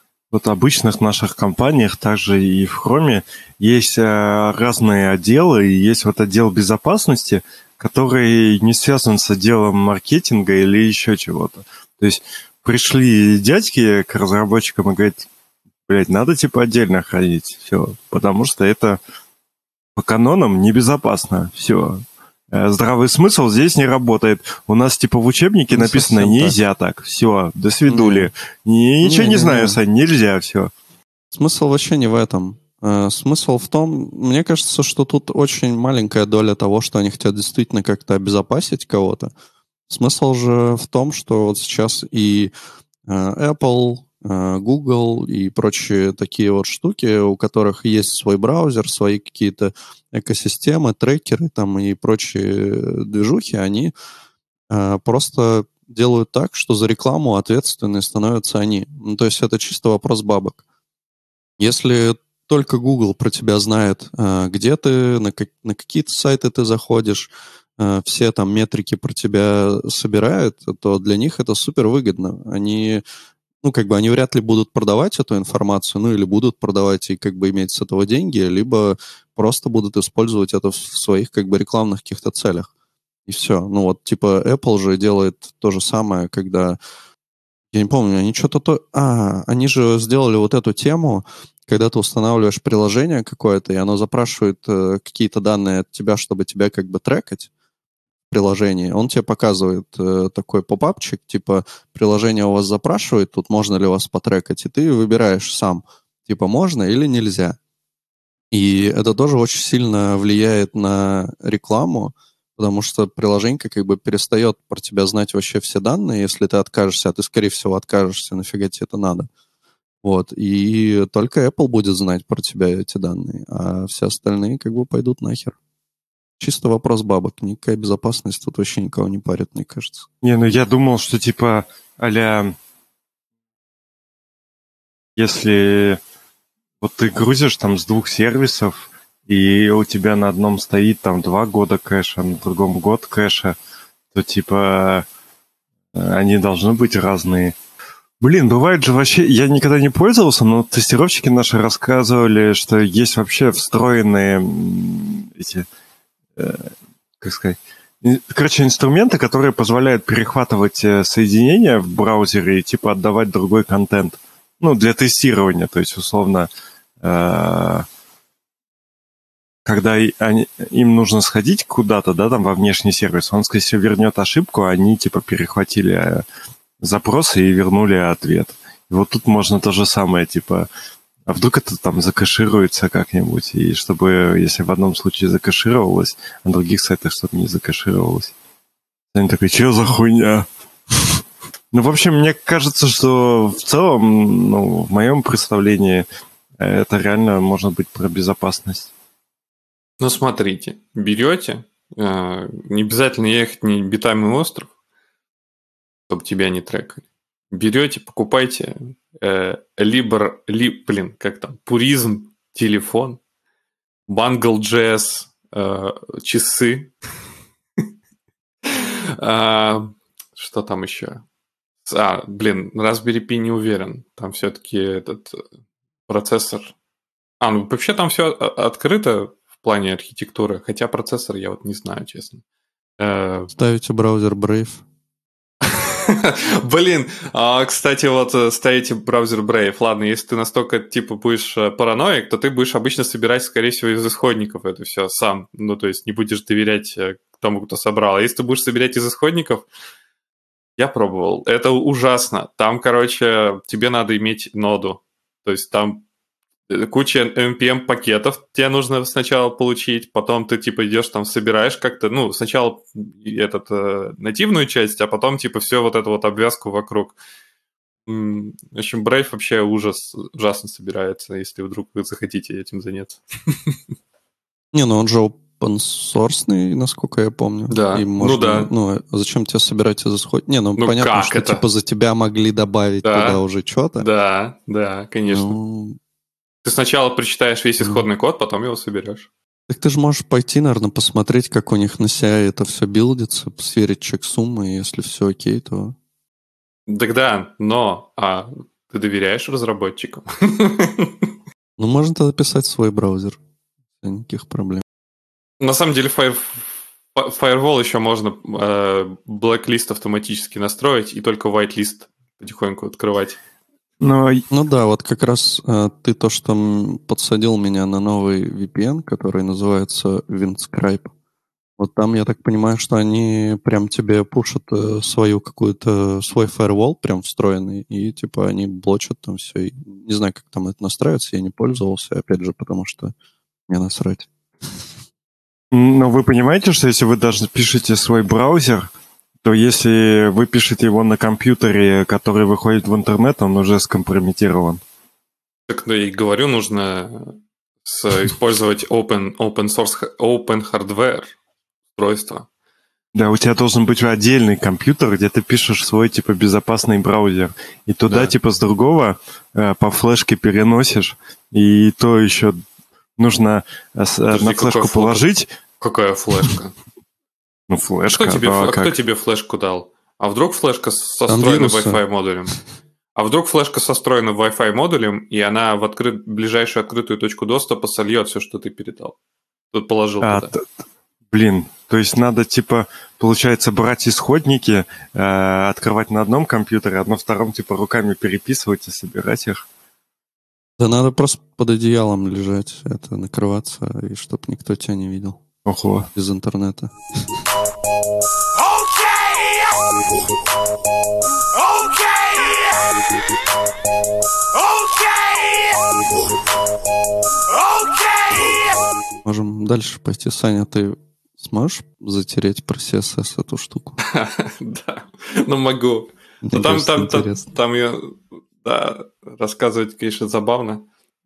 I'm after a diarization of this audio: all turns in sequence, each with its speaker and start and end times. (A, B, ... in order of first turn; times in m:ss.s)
0:00.3-0:15.2 A
0:15.9-0:19.0 A
0:20.0-0:30.7 A
0:25.7-0:26.6 B
0:27.8-0:28.3 B
0:29.0-0:29.8 B
0:31.3-0:39.3 B
0:39.9-0:42.5 B
0:43.1-0:53.9 B
0:54.7-1:00.6 B
1:01.6-1:13.0 B
1:13.6-1:22.7 B
1:23.3-1:26.8 B
1:27.7-1:37.5 B
1:38.3-1:47.6 B
1:48.5-1:59.3 B
2:00.0-2:05.6 B
2:06.4-2:10.1 B
2:10.2-2:12.5 A
2:15.2-2:16.0 A
2:16.8-2:23.6 A
2:24.1-2:25.0 A
2:25.9-2:27.6 A
2:28.2-2:35.6 A
2:36.4-2:46.5 A
2:47.0-2:47.8 A
2:49.6-2:56.2 A
2:56.8-3:00.7 A
3:01.3-3:08.3 A
3:09.1-3:10.4 A
3:11.7-3:16.0 A
3:16.6-3:18.9 A
3:20.0-3:24.7 C
3:26.1-3:33.2 C
3:34.1-3:36.9 C
3:38.6-3:41.2 C
3:41.8-3:45.4 C
3:46.1-3:46.7 C
3:47.4-3:52.4 C
3:53.0-3:53.5 C
3:53.5-3:54.8 B
3:55.6-4:09.6 C
4:10.8-4:16.0 C
4:16.7-4:27.2 C
4:28.1-4:33.8 C
4:34.7-4:44.0 B
4:37.7-4:38.7 C
4:40.8-4:41.6 C
4:43.0-4:43.4 C
4:44.0-4:45.6 C
4:45.3-4:46.0 B
4:46.6-4:49.3 C
4:47.8-4:48.0 B
4:49.7-4:55.9 B
4:56.9-5:01.3 C
5:01.8-5:03.4 B
5:04.0-5:04.8 B
5:05.6-5:13.4 C
5:14.0-5:14.4 A
5:14.5-5:21.1 B
5:21.8-5:33.1 B
5:33.7-5:34.3 B
5:35.7-5:38.9 A
5:39.4-5:44.8 A
5:45.7-5:51.3 C
5:51.9-5:52.4 C
5:53.1-6:02.6 A
6:03.2-6:05.5 A
6:04.3-6:05.2 C
6:05.8-6:06.7 C
6:07.7-6:09.0 A
6:08.1-6:12.6 C
6:11.3-6:12.0 B
6:13.2-6:19.2 C
6:19.7-6:20.5 C
6:20.2-6:20.6 A
6:21.3-6:29.6 A
6:30.8-6:35.4 B
6:35.6-6:36.1 A
6:36.1-6:36.9 B
6:49.2-6:54.0 B
6:54.0-7:00.8 C
6:56.4-6:57.5 B